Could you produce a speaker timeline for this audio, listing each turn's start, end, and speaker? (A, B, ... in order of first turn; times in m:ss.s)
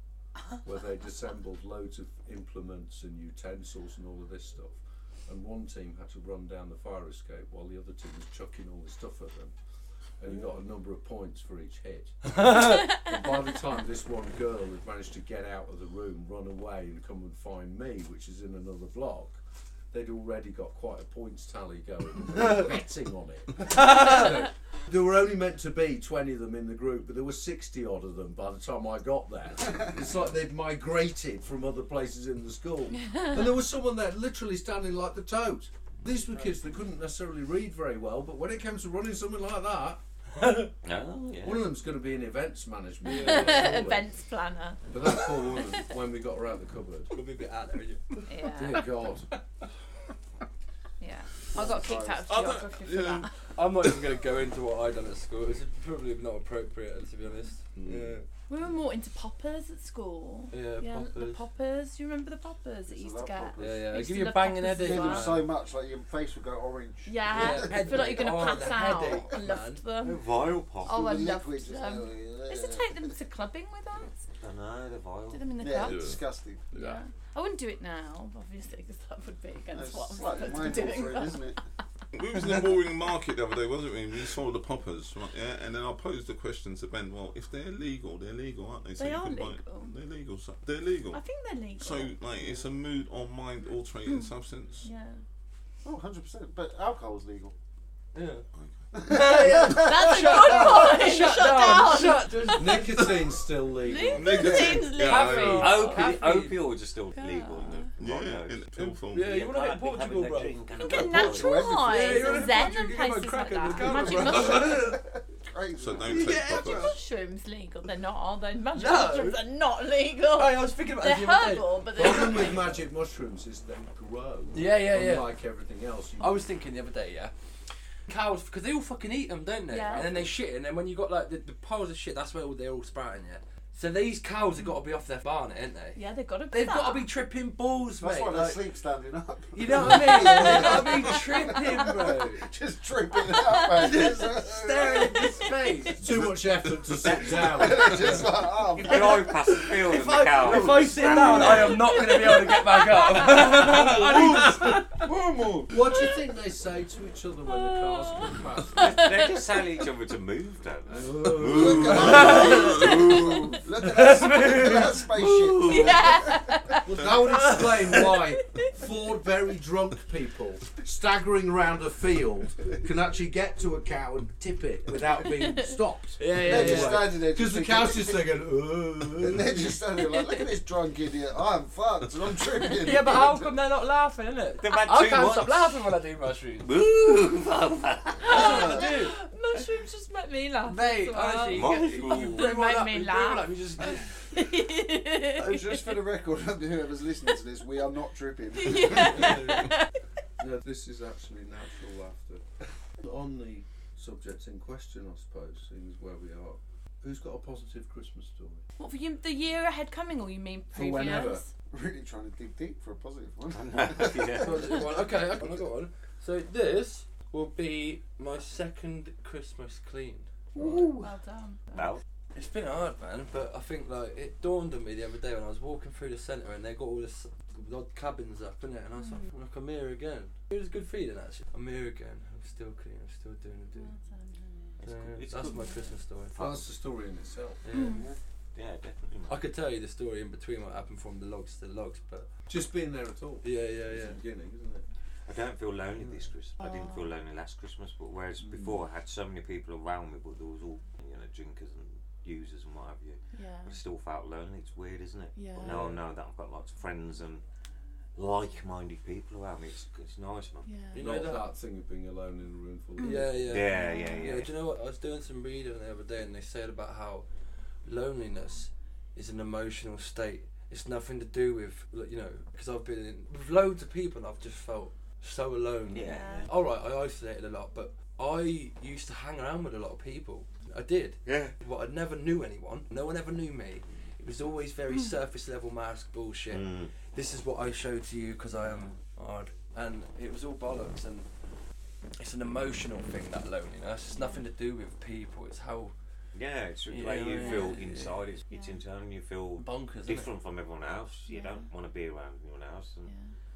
0:00.6-0:09.6 A
0:10.2-0:19.4 A
0:12.3-0:13.0 B
0:12.7-0:13.3 C
0:19.9-0:40.0 A
0:23.7-0:24.5 B
0:40.4-0:40.7 B
0:40.8-0:41.7 D
0:41.4-0:44.1 A
0:43.1-0:45.8 C
0:43.1-0:43.8 B
0:44.9-0:47.1 A
0:47.1-0:49.4 B
0:48.3-0:49.0 C
0:48.4-0:49.3 A
0:51.0-0:53.4 C
0:51.5-0:52.2 E
0:52.3-0:53.3 F
0:53.5-0:58.3 B
0:57.8-0:58.2 A
0:58.5-1:05.4 C
1:00.5-1:01.4 B
1:02.9-1:03.9 E
1:03.6-1:05.5 B
1:04.8-1:08.5 E
1:07.1-1:10.3 C
1:07.3-1:09.8 B
1:10.0-1:11.3 D
1:10.8-1:14.2 C
1:10.9-1:13.2 E
1:14.4-1:15.4 D
1:15.3-1:16.2 C
1:15.6-1:16.7 E
1:15.8-1:16.2 F
1:16.7-1:17.0 B
1:16.7-1:21.4 C
1:19.7-1:21.6 E
1:22.1-1:31.2 F
1:29.0-1:29.9 C
1:31.1-1:32.2 C
1:31.8-1:34.9 F
1:34.8-1:35.2 C
1:35.8-1:37.5 E
1:38.2-1:38.4 B
1:38.6-1:38.9 F
1:39.0-1:40.1 E
1:39.0-1:43.2 B
1:39.6-1:46.2 C
1:42.4-1:44.6 A
1:44.1-1:45.9 F
1:44.6-1:46.6 B
1:45.5-1:48.6 D
1:47.1-1:48.0 C
1:48.0-1:49.4 F
1:48.8-1:50.6 B
1:49.2-1:51.8 D
1:50.8-1:54.8 C
1:50.8-1:52.4 E
1:51.8-1:55.0 B
1:54.5-1:54.8 E
1:55.3-1:56.9 E
1:55.8-1:56.9 F
1:56.1-1:56.9 B
1:56.5-2:02.7 C
1:58.7-1:59.4 B
2:00.3-2:02.7 B
2:01.9-2:06.5 A
2:04.5-2:05.3 B
2:06.2-2:07.3 B
2:08.1-2:16.0 B
2:09.7-2:10.3 C
2:16.0-2:17.1 C
2:16.5-2:18.6 B
2:18.0-2:25.6 E
2:19.6-2:22.5 B
2:20.1-2:21.5 C
2:23.7-2:26.1 B
2:26.0-2:28.2 A
2:27.1-2:29.4 E
2:28.7-2:32.2 D
2:29.5-2:35.1 B
2:30.4-2:31.8 E
2:31.8-2:33.5 C
2:33.5-2:34.6 A
2:33.9-2:34.3 E
2:35.0-2:35.8 E
2:35.7-2:39.0 A
2:37.5-2:39.3 C
2:38.8-2:43.6 D
2:40.9-2:42.6 A
2:41.4-2:46.5 E
2:41.7-2:43.2 F
2:41.8-2:43.1 B
2:43.8-2:45.6 B
2:45.7-2:46.8 C
2:46.8-2:59.7 A
2:47.3-2:47.8 B
2:48.2-2:48.8 C
2:55.2-2:55.8 C
2:56.2-2:57.1 B
2:56.4-2:58.3 E
2:59.2-3:03.5 E
3:02.8-3:06.7 B
3:04.6-3:05.9 D
3:06.6-3:08.8 D
3:08.2-3:16.0 C
3:08.3-3:09.2 B
3:10.6-3:14.4 B
3:11.5-3:12.5 D
3:15.4-3:19.5 E
3:18.5-3:19.9 C
3:19.0-3:19.7 B
3:20.4-3:22.4 A
3:23.0-3:28.6 A
3:28.8-3:31.5 C
3:30.7-3:31.4 A
3:31.7-3:34.7 E
3:33.5-3:34.8 D
3:34.4-3:40.9 B
3:40.6-3:41.1 E
3:41.0-3:42.0 C
3:41.7-3:42.0 D
3:42.4-3:53.9 B
3:49.0-3:49.3 C
3:53.7-3:54.7 C
3:54.8-3:55.9 D
3:54.8-3:56.7 B
3:55.4-3:55.9 C
3:56.4-3:57.6 A
3:57.6-3:58.0 B
3:57.7-3:58.1 C
3:57.8-3:59.5 D
3:59.3-4:02.3 B
4:02.5-4:04.9 A
4:03.4-4:04.2 B
4:05.3-4:17.4 D
4:06.6-4:07.1 C
4:08.4-4:08.8 A
4:13.3-4:13.8 C
4:15.3-4:15.8 C
4:15.6-4:16.0 B
4:18.2-4:20.7 D
4:20.6-4:21.1 C
4:20.9-4:21.4 B
4:21.0-4:23.2 A
4:23.0-4:24.3 C
4:23.0-4:27.3 B
4:23.4-4:24.5 D
4:27.8-4:51.3 B
4:35.9-4:36.5 D
4:36.0-4:36.5 C
4:41.2-4:41.5 D
4:46.5-4:46.9 D
4:52.2-4:56.0 B
4:54.1-4:54.4 C
4:56.4-5:03.1 D
4:56.9-4:58.2 B
4:57.3-4:57.7 C
4:58.5-4:58.8 C
4:59.6-5:00.3 B
5:01.3-5:01.7 C
5:03.0-5:03.3 C